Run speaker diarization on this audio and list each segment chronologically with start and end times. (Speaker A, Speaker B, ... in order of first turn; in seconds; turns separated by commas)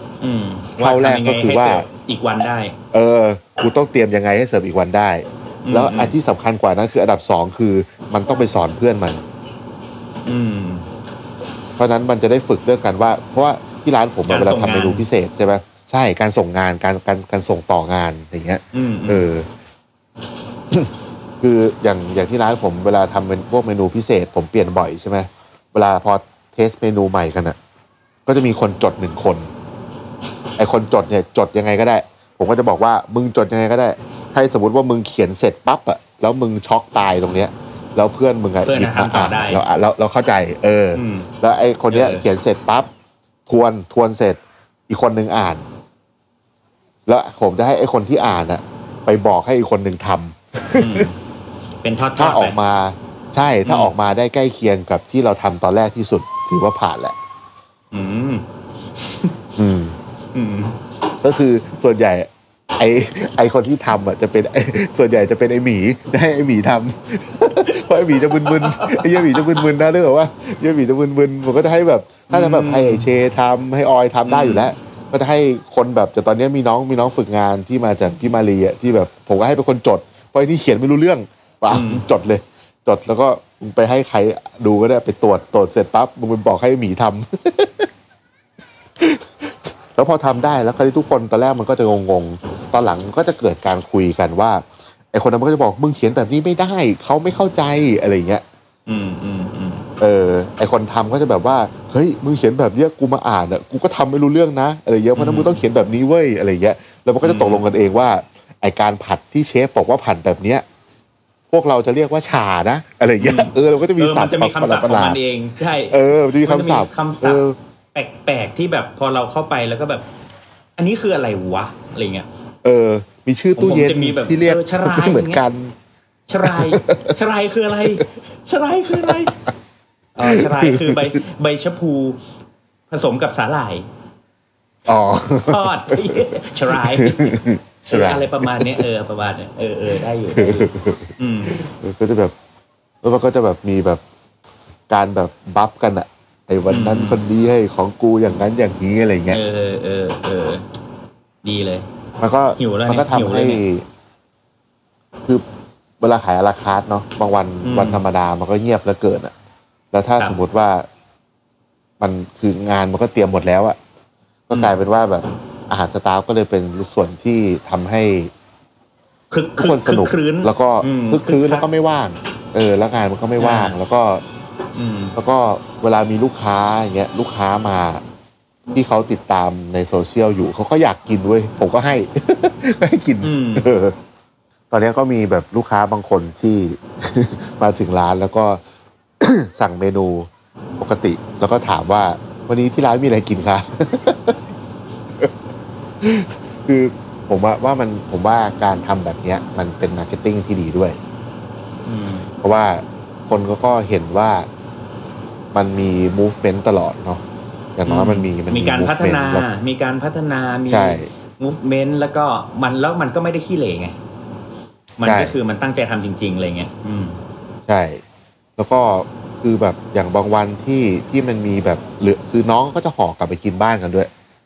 Speaker A: 0.2-2.8, Speaker B: 0.8-1.9, Speaker B: 2.9-9.2, Speaker A: 5.6-6.1, Speaker A: 10.3-10.9, Speaker B: 11.8-19.5, Speaker A: 14.3-15.1, Speaker A: 18.7-19.3, Speaker B: 20.7-27.6, Speaker B: 28.3-29.5, Speaker B: 30.6-42.9, Speaker A: 38.6-39.6, Speaker A: 40.9-41.3, Speaker A: 41.9-42.3, Speaker B: 43.5-45.6, Speaker B: 47.1-51.1, Speaker A: 50.7-51.2, Speaker A: 51.8-52.6, Speaker B: 52.1-57.2, Speaker A: 53.6-53.9, Speaker A: 57.9-59.4, Speaker B: 59.6-60.0, Speaker A: 60.3-60.8, Speaker B: 61.2-87.9, Speaker A: 67.7-69.7, Speaker A: 72.3-73.1, Speaker A: 74.3-74.7, Speaker A: 81.7-82.0, Speaker B: 89.0-98.4, Speaker A: 98.9-99.9, Speaker B: 100.0-110.6, Speaker A: 105.2-105.6, Speaker A: 107.2-107.7, Speaker B: 111.5-115.2, Speaker A: 113.2-120.1, Speaker B: 115.9-117.6, Speaker A: 120.8-122.3, Speaker B: 122.6-125.8, Speaker A: 123.6-125.4, Speaker A: 126.3-129.3, Speaker B: 126.4-127.2, Speaker B: 129.0-129.4, Speaker A: 130.2-132.2, Speaker B: 130.2-131.1, Speaker A: 132.9-133.9, Speaker B: 134.9-138.9, Speaker A: 135.4-141.6, Speaker B: 140.3-142.3, Speaker B: 143.0-144.0, Speaker B: 144.9-149.4, Speaker A: 146.7-147.2, Speaker A: 149.3-150.6, Speaker A: 151.4-151.9, Speaker B: 152.2-153.8, Speaker A: 152.6-153.6, Speaker B: 156.0-159.3, Speaker A: 157.6-158.0, Speaker B: 159.9-160.9, Speaker B: 162.0-163.8, Speaker B: 164.5-168.3, Speaker A: 169.3-171.7, Speaker B: 169.6-174.2, Speaker A: 173.4-173.8, Speaker A: 174.8-175.2, Speaker B: 175.2-178.0, Speaker B: 178.7-183.9, Speaker A: 183.2-183.7, Speaker B: 184.7-188.6, Speaker B: 189.2-194.4, Speaker B: 196.0-201.0, Speaker A: 201.9-202.3, Speaker B: 202.4-204.5, Speaker B: 205.5-207.2, Speaker B: 207.8-209.4, Speaker A: 207.9-213.9, Speaker B: 210.7-211.1, Speaker A: 215.0-217.2, Speaker B: 215.0-215.4, Speaker B: 217.7-218.0, Speaker B: 218.6-224.1